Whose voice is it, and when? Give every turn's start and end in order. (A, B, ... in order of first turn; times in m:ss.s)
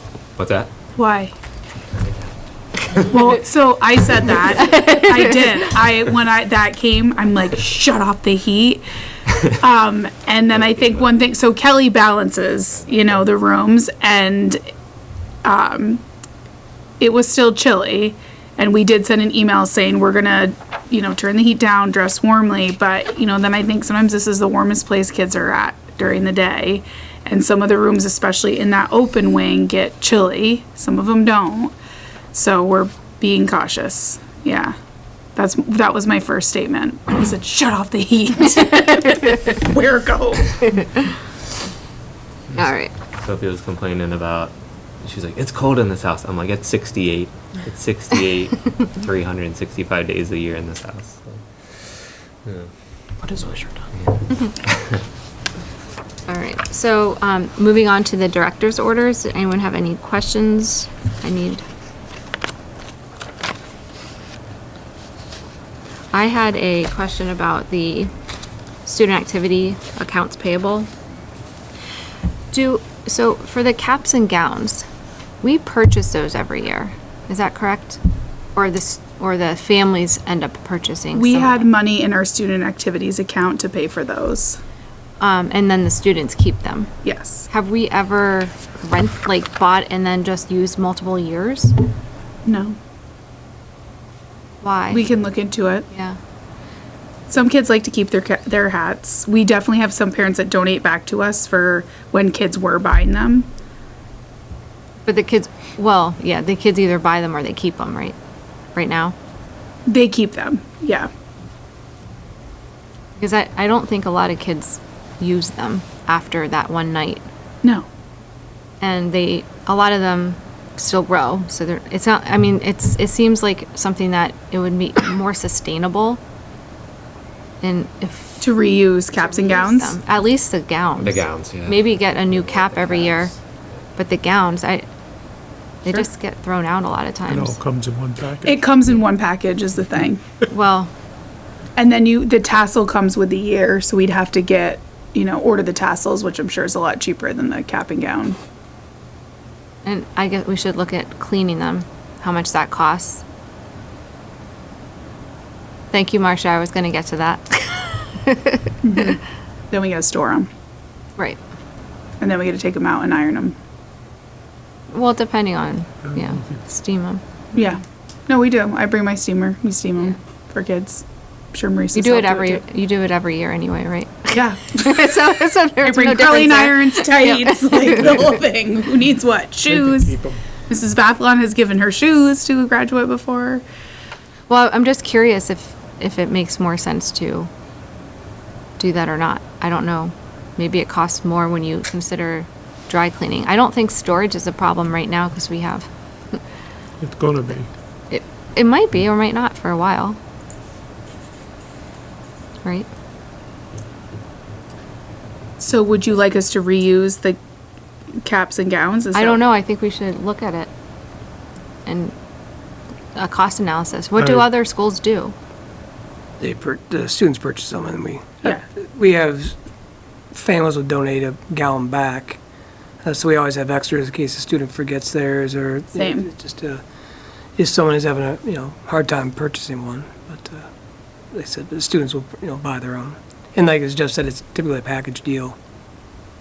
0:00.4-0:00.7 A
0:01.0-0:01.3 B
0:03.1-0:08.8 B
0:04.5-0:05.7 C
0:09.5-0:14.6 B
0:15.4-0:16.0 B
0:17.0-0:31.7 B
0:32.3-0:34.7 B
0:35.4-0:40.8 B
0:42.5-0:42.9 C
0:43.2-0:51.4 A
0:53.2-0:53.8 D
0:56.3-1:01.6 C
1:06.1-1:08.1 C
1:08.8-1:10.9 C
1:12.5-1:14.8 C
1:15.4-1:18.0 C
1:18.5-1:21.7 C
1:21.1-1:24.6 B
1:25.2-1:26.9 C
1:27.0-1:27.5 B
1:27.5-1:31.7 C
1:32.4-1:32.8 B
1:34.6-1:35.0 C
1:34.9-1:35.8 B
1:35.9-1:36.2 C
1:37.3-1:43.5 B
1:45.0-1:48.2 C
1:48.7-1:49.1 C
1:49.9-1:51.1 B
1:53.2-1:57.2 C
1:58.8-2:06.2 C
2:07.6-2:08.5 C
2:08.4-2:10.0 B
2:09.1-2:13.3 C
2:11.0-2:11.9 A
2:12.6-2:13.3 A
2:14.0-2:14.8 C
2:15.8-2:17.6 C
2:17.3-2:18.6 E
2:18.4-2:20.2 B
2:20.5-2:20.9 C
2:21.8-2:28.4 B
2:29.8-2:33.2 C
2:35.9-2:38.8 C
2:38.8-2:39.2 B
2:39.7-2:40.5 B
2:42.2-2:43.5 B
2:44.9-2:47.2 C
2:46.0-2:46.6 E
2:47.5-2:52.6 B
2:51.9-2:58.3 C
2:54.3-2:55.2 B
2:55.8-3:00.1 B
2:58.0-2:58.2 E
2:59.6-3:00.4 E
3:00.7-3:03.6 B
3:04.5-3:07.5 C
3:08.8-3:15.9 C
3:17.0-3:17.7 E
3:18.1-3:20.2 C
3:25.6-3:27.4 B
3:28.2-3:29.4 B
3:29.1-3:30.7 C
3:31.8-3:32.1 C
3:33.1-3:35.3 C
3:34.2-3:34.5 E
3:36.4-3:39.5 D
3:40.3-3:42.4 D
3:43.0-3:46.8 D
3:46.0-3:46.3 B
3:47.6-3:50.7 D
3:51.3-3:55.5 D